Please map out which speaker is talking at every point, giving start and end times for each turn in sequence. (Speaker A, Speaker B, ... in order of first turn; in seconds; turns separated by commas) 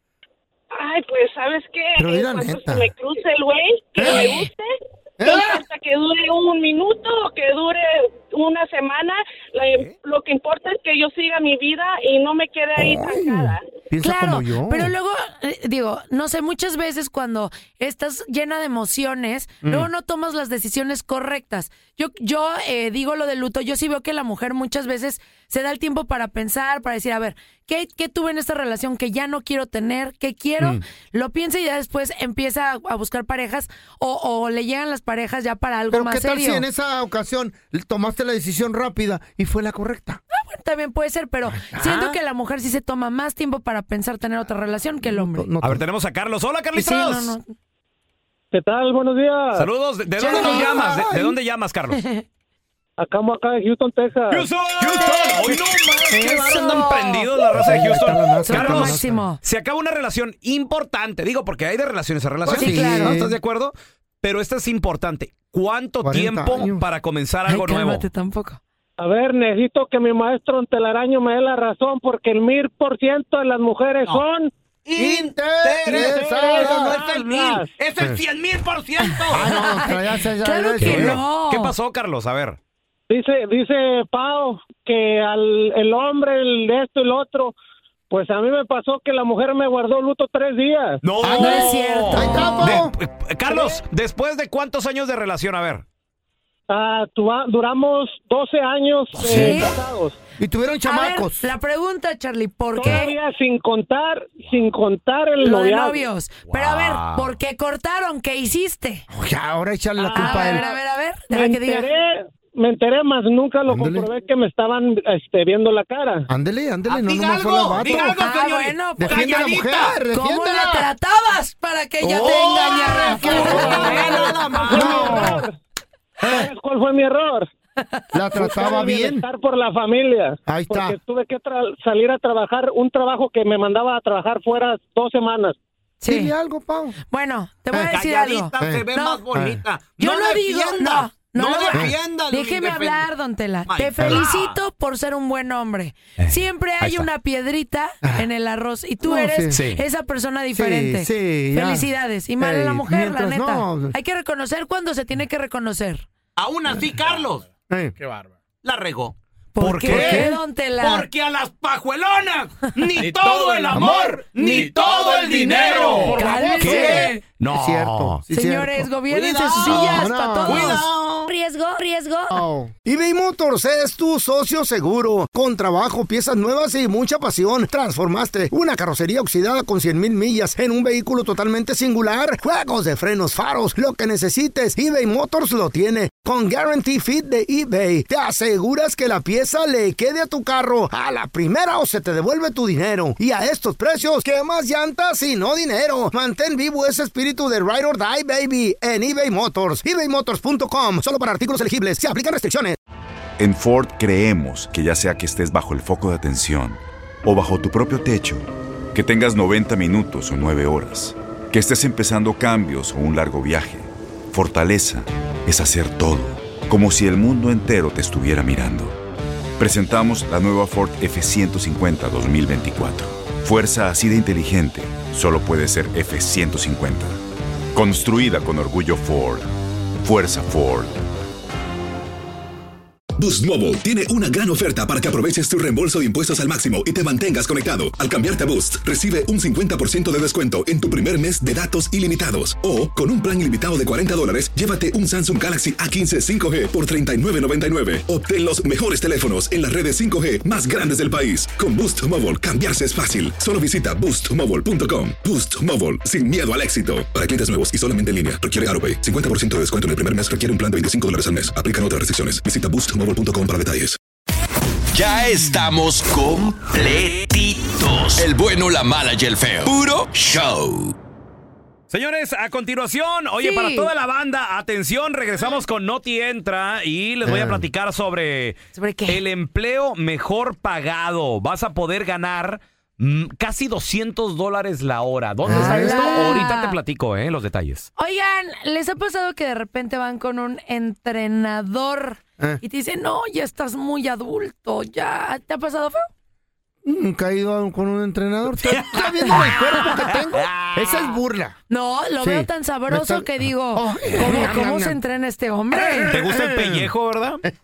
Speaker A: 0.7-13.6, Speaker B: 1.9-2.9, Speaker B: 4.0-4.5, Speaker B: 5.2-5.6, Speaker C: 9.6-9.9, Speaker B: 12.8-14.9, Speaker D: 14.0-36.6, Speaker B: 19.6-19.9, Speaker B: 35.9-40.2, Speaker D: 40.3-45.5, Speaker B: 41.5-42.2, Speaker B: 45.0-45.8, Speaker C: 45.6-47.3, Speaker D: 46.7-47.5, Speaker E: 48.5-49.7, Speaker C: 49.5-52.0, Speaker B: 50.2-51.4, Speaker D: 50.2-50.8, Speaker D: 51.9-52.2, Speaker E: 53.0-54.5, Speaker C: 54.3-68.1, Speaker D: 54.9-55.5, Speaker B: 55.0-56.9, Speaker D: 56.3-57.3, Speaker B: 57.5-59.2, Speaker D: 58.5-59.4, Speaker B: 62.4-63.4, Speaker D: 62.5-63.2, Speaker B: 66.0-66.8, Speaker D: 67.5-68.6, Speaker E: 69.0-74.5, Speaker C: 74.9-79.4, Speaker B: 75.0-77.0, Speaker E: 75.9-77.7, Speaker F: 76.6-77.3, Speaker D: 79.0-81.7, Speaker B: 79.2-81.2, Speaker C: 80.8-82.6, Speaker E: 83.1-87.5, Speaker E: 88.1-91.0, Speaker C: 91.0-95.8, Speaker B: 91.2-92.9, Speaker D: 91.4-92.8, Speaker E: 93.5-93.8, Speaker E: 96.7-100.2, Speaker B: 99.2-99.7, Speaker D: 99.2-99.7, Speaker B: 100.4-101.5, Speaker D: 100.8-103.2, Speaker E: 102.8-106.0, Speaker D: 105.4-109.0, Speaker C: 106.5-107.3, Speaker B: 109.1-110.6, Speaker E: 110.0-116.3, Speaker D: 110.1-111.9, Speaker B: 113.7-114.1, Speaker B: 116.3-118.2, Speaker C: 116.9-120.0, Speaker D: 117.8-119.4, Speaker B: 119.0-120.9, Speaker D: 120.1-124.2, Speaker C: 122.0-125.3, Speaker B: 122.3-125.5, Speaker E: 123.3-125.5, Speaker B: 126.2-126.5, Speaker E: 126.2-127.5, Speaker B: 128.1-129.2, Speaker E: 128.3-135.6, Speaker B: 130.4-130.9, Speaker D: 136.0-136.3, Speaker B: 136.1-137.0, Speaker D: 137.1-139.2, Speaker C: 137.9-143.0, Speaker B: 138.6-139.6, Speaker D: 140.0-156.1, Speaker C: 143.7-144.5, Speaker B: 144.0-144.2, Speaker C: 146.2-147.1, Speaker B: 148.0-148.3, Speaker B: 149.0-149.6, Speaker C: 149.5-149.8, Speaker B: 150.5-153.9, Speaker C: 156.4-157.4, Speaker F: 157.0-157.4, Speaker B: 157.7-157.9, Speaker F: 158.0-158.3, Speaker C: 158.6-168.2, Speaker D: 159.5-161.1, Speaker B: 159.6-160.3, Speaker F: 162.9-166.5, Speaker B: 163.7-164.5, Speaker B: 165.6-168.9, Speaker D: 166.0-167.2, Speaker D: 168.3-172.4, Speaker C: 169.1-171.3, Speaker B: 169.6-170.8, Speaker B: 172.3-202.8, Speaker G: 203.4-219.0, Speaker G: 219.6-227.2, Speaker G: 227.7-229.5, Speaker G: 230.0-231.0, Speaker H: 233.2-264.0, Speaker I: 264.9-270.9, Speaker C: 271.9-287.9, Speaker D: 273.4-273.9, Speaker B: 277.2-277.6, Speaker D: 278.7-279.2, Speaker B: 285.4-286.4, Speaker D: 285.5-286.8, Speaker D: 288.0-296.1, Speaker B: 296.8-301.6, Speaker C: 298.6-301.2, Speaker D: 301.7-306.1, Speaker B: 302.2-305.0, Speaker B: 305.7-306.9, Speaker C: 306.1-307.4